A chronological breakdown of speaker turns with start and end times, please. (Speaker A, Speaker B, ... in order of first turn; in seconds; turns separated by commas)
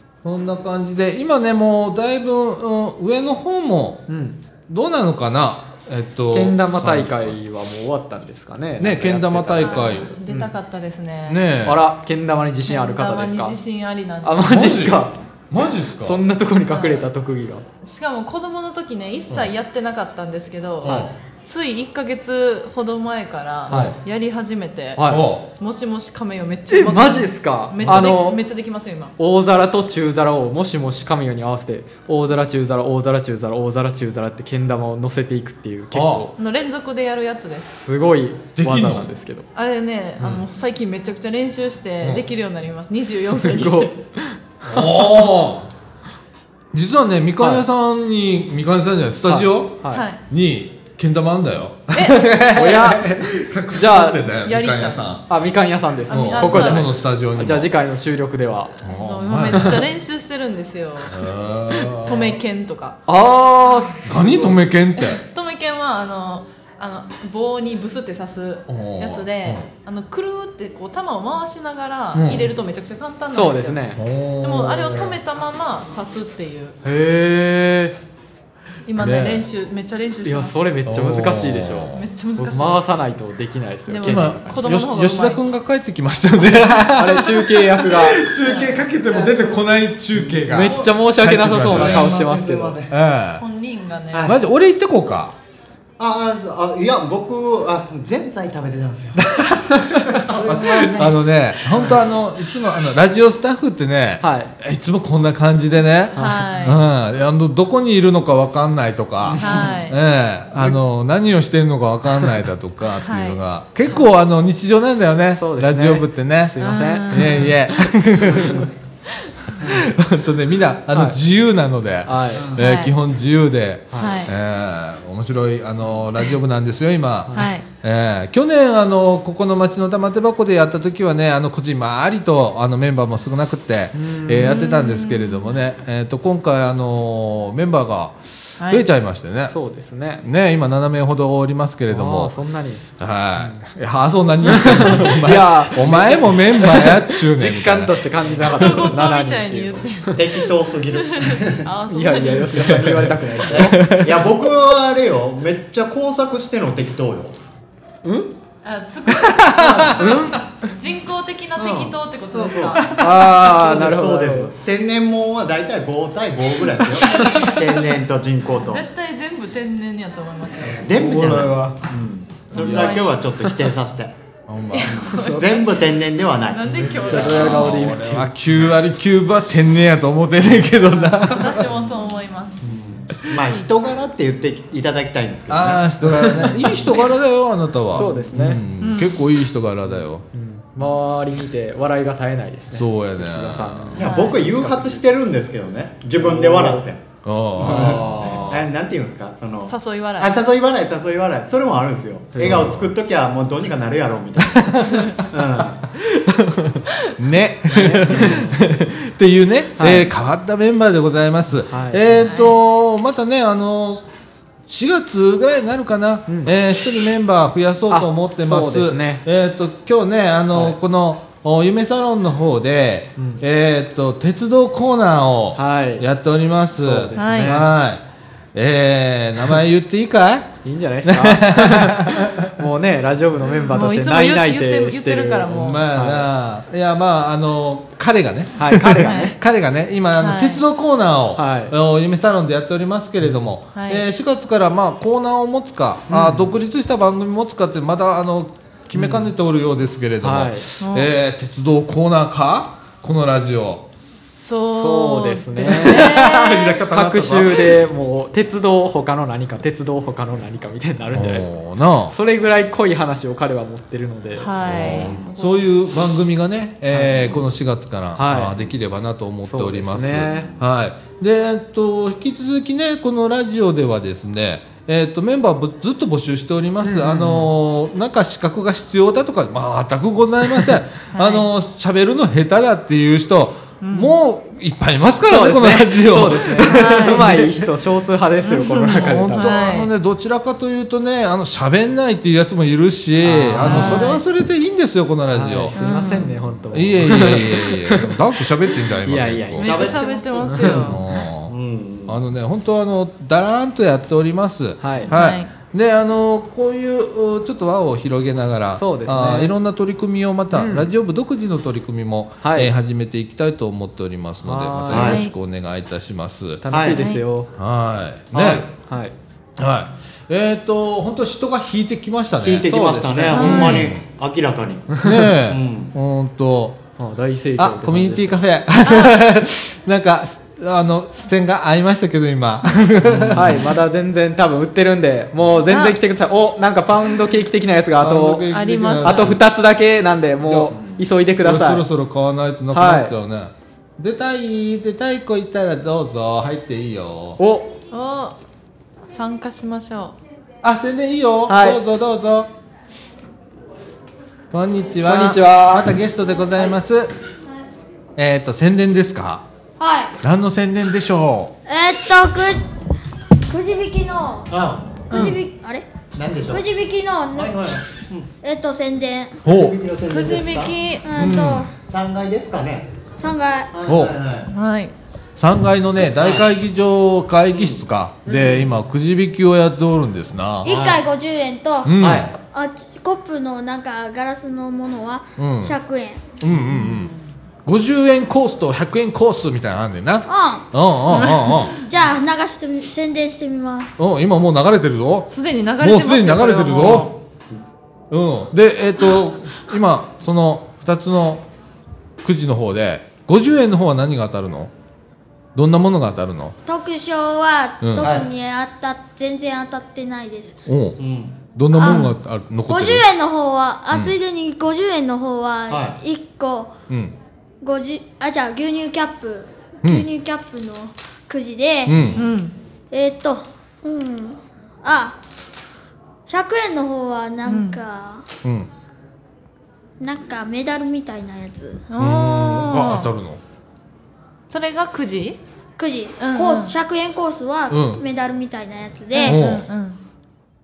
Speaker A: 0.2-4.0, Speaker B: 4.1-4.4, Speaker A: 4.7-7.4, Speaker B: 6.3-10.5, Speaker A: 8.8-10.1, Speaker C: 9.7-11.4, Speaker A: 11.3-11.8, Speaker B: 11.6-13.6, Speaker C: 12.7-14.4, Speaker B: 14.2-15.2, Speaker A: 14.4-16.2, Speaker B: 16.0-17.6, Speaker C: 16.7-17.1, Speaker C: 17.8-29.1, Speaker A: 20.8-21.1, Speaker B: 23.7-23.9, Speaker A: 23.7-23.9, Speaker B: 24.9-25.3, Speaker A: 25.0-25.5, Speaker B: 26.7-28.4, Speaker A: 27.8-28.1, Speaker B: 29.2-36.3, Speaker A: 35.9-36.3, Speaker C: 36.4-37.6, Speaker B: 37.5-39.5, Speaker A: 38.6-39.1, Speaker C: 39.5-44.0, Speaker A: 42.0-42.2, Speaker B: 43.1-45.2, Speaker A: 44.7-45.7, Speaker A: 46.7-55.2, Speaker B: 49.2-50.0, Speaker C: 49.9-50.2, Speaker C: 51.9-52.3, Speaker B: 52.5-53.2, Speaker B: 53.7-54.3, Speaker C: 54.4-55.1, Speaker B: 55.3-58.8, Speaker C: 56.1-57.0, Speaker A: 56.1-57.7, Speaker A: 58.8-59.8, Speaker C: 59.0-61.2, Speaker B: 59.5-59.8, Speaker A: 61.1-62.4, Speaker C: 61.9-63.0, Speaker B: 63.1-64.5, Speaker A: 64.0-65.2, Speaker C: 65.0-73.8, Speaker A: 68.7-69.7, Speaker A: 72.1-72.5, Speaker B: 73.3-74.0, Speaker A: 73.9-75.2, Speaker C: 74.4-76.7, Speaker B: 76.8-78.0, Speaker C: 78.9-80.5, Speaker A: 79.0-79.5, Speaker B: 80.2-84.6, Speaker A: 80.9-82.0, Speaker C: 81.9-82.8, Speaker C: 83.9-85.4, Speaker A: 84.0-92.1, Speaker B: 86.9-88.3, Speaker D: 88.9-90.6, Speaker B: 90.5-92.8, Speaker D: 91.5-92.9, Speaker A: 92.9-93.4, Speaker C: 93.4-94.3, Speaker A: 94.2-95.3, Speaker D: 96.0-99.2, Speaker A: 99.2-99.7, Speaker B: 99.7-100.2, Speaker D: 100.3-101.2, Speaker A: 100.3-118.6, Speaker B: 104.2-104.5, Speaker B: 106.1-106.5, Speaker C: 106.2-106.8, Speaker B: 109.3-109.7, Speaker C: 109.4-110.0, Speaker C: 113.0-113.4, Speaker B: 115.3-117.6, Speaker C: 116.6-117.5, Speaker B: 118.2-118.6, Speaker A: 119.7-139.5, Speaker B: 120.9-121.2, Speaker B: 122.0-122.5, Speaker C: 122.6-122.9, Speaker B: 123.9-124.2, Speaker C: 124.0-124.3, Speaker B: 127.3-127.5, Speaker C: 127.3-127.6, Speaker B: 133.9-134.7, Speaker C: 134.5-135.5, Speaker C: 138.6-138.8, Speaker B: 139.5-140.2, Speaker A: 140.2-142.3, Speaker B: 141.9-142.8, Speaker A: 143.0-148.8, Speaker B: 144.5-150.2, Speaker C: 148.4-150.4, Speaker D: 150.2-151.6, Speaker C: 151.0-152.6, Speaker B: 151.9-154.0, Speaker D: 153.4-157.3, Speaker A: 153.8-154.1, Speaker B: 158.0-158.3, Speaker C: 158.6-162.8, Speaker A: 159.6-159.9, Speaker B: 159.8-160.3, Speaker D: 161.6-162.8, Speaker B: 162.9-164.5, Speaker D: 163.4-168.8, Speaker C: 168.6-170.9, Speaker D: 170.8-174.1, Speaker A: 171.0-171.7, Speaker C: 172.5-173.2, Speaker A: 172.5-173.0, Speaker A: 174.5-175.1, Speaker C: 174.7-175.9, Speaker D: 174.9-177.3, Speaker B: 175.1-175.5, Speaker C: 176.4-177.9, Speaker A: 176.8-181.7, Speaker B: 176.9-178.3, Speaker C: 181.2-182.6, Speaker D: 182.6-185.8, Speaker A: 185.5-190.2, Speaker B: 186.0-186.7, Speaker B: 187.9-188.6, Speaker C: 188.8-189.2, Speaker B: 189.9-195.0, Speaker A: 192.7-194.0, Speaker D: 194.0-197.0, Speaker C: 194.0-194.4, Speaker B: 196.2-196.8, Speaker A: 197.2-198.6, Speaker D: 197.6-205.8, Speaker B: 197.6-198.5, Speaker C: 199.7-200.4, Speaker B: 202.3-202.6, Speaker A: 202.4-202.9, Speaker A: 206.0-214.0, Speaker B: 207.7-208.5, Speaker B: 209.8-210.1, Speaker B: 211.7-212.4, Speaker C: 212.3-212.5, Speaker A: 214.7-228.0, Speaker B: 217.9-219.2, Speaker B: 223.2-223.4, Speaker B: 225.6-226.1, Speaker B: 226.8-227.7, Speaker C: 227.1-227.6, Speaker A: 228.5-230.5, Speaker B: 230.6-236.3, Speaker A: 231.1-232.4, Speaker C: 233.6-235.8, Speaker A: 235.5-253.8, Speaker B: 238.6-239.3, Speaker C: 239.0-239.4, Speaker C: 240.2-240.6, Speaker B: 241.3-241.7, Speaker C: 243.7-244.0, Speaker B: 246.1-246.6, Speaker B: 248.9-249.3, Speaker B: 250.2-250.7, Speaker C: 250.8-251.1, Speaker C: 254.3-256.8, Speaker B: 254.7-256.3, Speaker A: 255.8-257.7, Speaker B: 256.9-261.5, Speaker A: 261.1-262.1, Speaker B: 262.1-265.0, Speaker C: 264.4-265.6, Speaker A: 264.6-287.6, Speaker B: 266.9-267.4, Speaker B: 268.1-268.6, Speaker B: 269.4-270.5, Speaker B: 276.8-277.5, Speaker C: 281.1-281.5, Speaker C: 283.8-284.1, Speaker B: 285.3-289.8, Speaker C: 286.7-287.3, Speaker C: 288.5-289.9, Speaker A: 288.9-295.8, Speaker B: 293.2-294.1, Speaker C: 293.6-294.2, Speaker B: 295.3-298.1, Speaker C: 295.8-296.4, Speaker A: 296.7-299.7, Speaker B: 299.0-300.9, Speaker C: 299.6-301.0, Speaker D: 299.6-300.8, Speaker A: 300.6-301.5, Speaker D: 301.5-302.2, Speaker A: 302.1-316.6, Speaker B: 304.8-305.1, Speaker C: 305.1-305.5, Speaker B: 308.7-309.5, Speaker B: 310.5-310.9, Speaker B: 312.4-312.7, Speaker B: 314.4-315.2, Speaker C: 314.9-315.3, Speaker B: 316.6-317.5, Speaker D: 316.7-317.0, Speaker C: 316.9-317.2, Speaker A: 317.5-318.6, Speaker D: 318.3-318.6, Speaker B: 318.7-319.1, Speaker A: 319.6-324.0, Speaker D: 322.4-325.9, Speaker B: 322.7-323.7, Speaker C: 323.3-323.9, Speaker A: 325.0-326.8, Speaker B: 327.0-328.4, Speaker A: 327.6-333.7, Speaker C: 328.9-329.2, Speaker D: 333.1-333.4, Speaker B: 333.3-338.4, Speaker C: 335.6-336.0, Speaker A: 338.0-339.4, Speaker C: 338.5-339.4, Speaker B: 339.0-341.9, Speaker A: 340.4-340.7, Speaker A: 341.4-347.4, Speaker B: 342.7-343.1, Speaker B: 347.4-347.7, Speaker C: 347.9-348.4, Speaker C: 349.1-350.1, Speaker A: 350.6-352.5, Speaker B: 351.5-351.8, Speaker A: 354.5-357.1, Speaker B: 355.0-355.9, Speaker A: 358.2-359.4, Speaker E: 359.8-360.1, Speaker A: 360.2-361.5, Speaker E: 361.6-362.6, Speaker E: 363.5-364.5, Speaker D: 364.5-364.9, Speaker E: 365.1-365.8, Speaker C: 365.1-365.4, Speaker D: 366.1-366.6, Speaker E: 366.4-367.6, Speaker D: 367.4-368.3, Speaker E: 368.4-369.4, Speaker A: 369.4-369.8, Speaker D: 369.5-370.8, Speaker C: 370.1-371.1, Speaker E: 371.0-371.7, Speaker A: 371.1-371.7, Speaker D: 371.9-372.9, Speaker E: 373.1-373.7, Speaker D: 373.7-374.5, Speaker A: 373.9-374.1, Speaker C: 374.5-374.9, Speaker A: 375.4-380.7, Speaker D: 376.2-376.4, Speaker D: 377.5-377.8, Speaker B: 378.3-378.6, Speaker E: 380.6-386.3, Speaker D: 380.6-381.0, Speaker A: 381.8-382.3, Speaker D: 381.9-382.3, Speaker A: 385.4-385.8, Speaker A: 386.4-387.1, Speaker A: 387.6-391.8, Speaker E: 390.3-390.7, Speaker C: 391.1-391.6, Speaker E: 391.7-393.9, Speaker A: 394.0-397.1, Speaker C: 395.3-397.1, Speaker A: 398.1-401.4, Speaker A: 402.2-404.7, Speaker A: 405.5-406.6, Speaker E: 406.6-410.6, Speaker A: 407.8-408.1, Speaker D: 408.0-408.2, Speaker A: 410.6-411.0, Speaker D: 411.0-411.4, Speaker A: 411.5-413.1, Speaker E: 411.7-412.1, Speaker C: 411.8-412.1, Speaker E: 412.7-416.7, Speaker D: 415.7-416.0, Speaker E: 417.6-422.0, Speaker A: 421.9-422.2, Speaker C: 422.1-422.5, Speaker E: 422.9-425.1, Speaker E: 426.3-428.2, Speaker C: 427.4-427.8, Speaker A: 428.4-428.7, Speaker E: 430.0-431.9, Speaker C: 431.9-433.1, Speaker A: 431.9-433.4, Speaker C: 434.5-435.4, Speaker E: 435.8-439.5, Speaker C: 436.2-436.7, Speaker A: 437.7-438.0, Speaker C: 439.1-440.0, Speaker A: 439.2-439.6